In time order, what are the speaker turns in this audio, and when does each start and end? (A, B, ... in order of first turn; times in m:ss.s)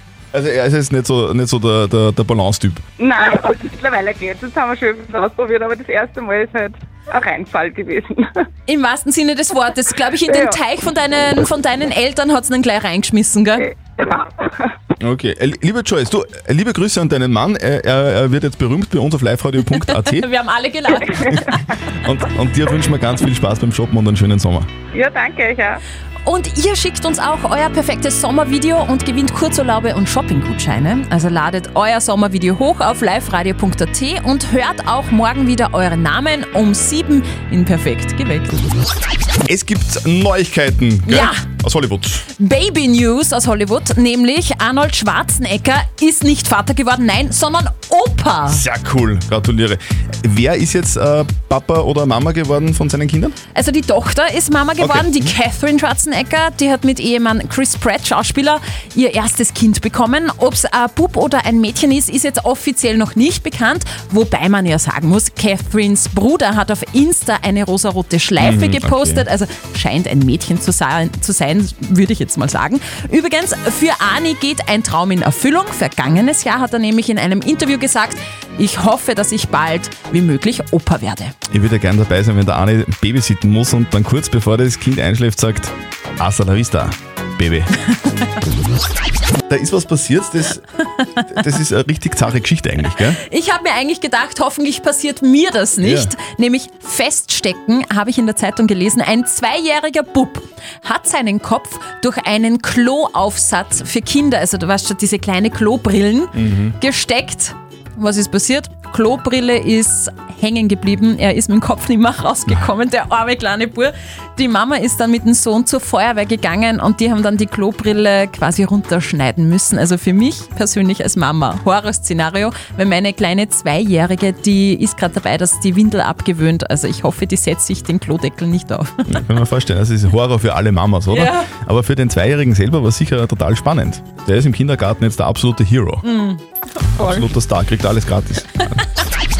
0:00.3-0:02.8 A
0:03.0-0:08.5 B
0:08.7-0:13.7 C
0:10.3-0:10.6 B
0:13.6-0:14.7 B
0:15.0-0:20.3 A
0:19.9-0:21.6 C
0:22.0-0:24.7 A
0:24.9-0:25.8 B
0:26.2-0:38.5 C
0:39.4-0:42.2 A
0:41.1-0:41.4 C
0:42.4-0:48.6 C
0:48.5-0:53.4 A
0:53.5-1:21.3 C
0:54.8-0:55.4 A
1:08.4-1:09.3 A
1:21.5-1:27.7 A
1:29.5-1:30.6 A
1:31.3-1:33.2 A
1:33.2-2:09.0 C
1:35.8-1:36.1 A
1:46.4-1:46.8 A
2:09.1-2:16.0 A
2:11.1-2:11.5 C
2:16.0-2:17.3 C
2:16.9-2:18.8 A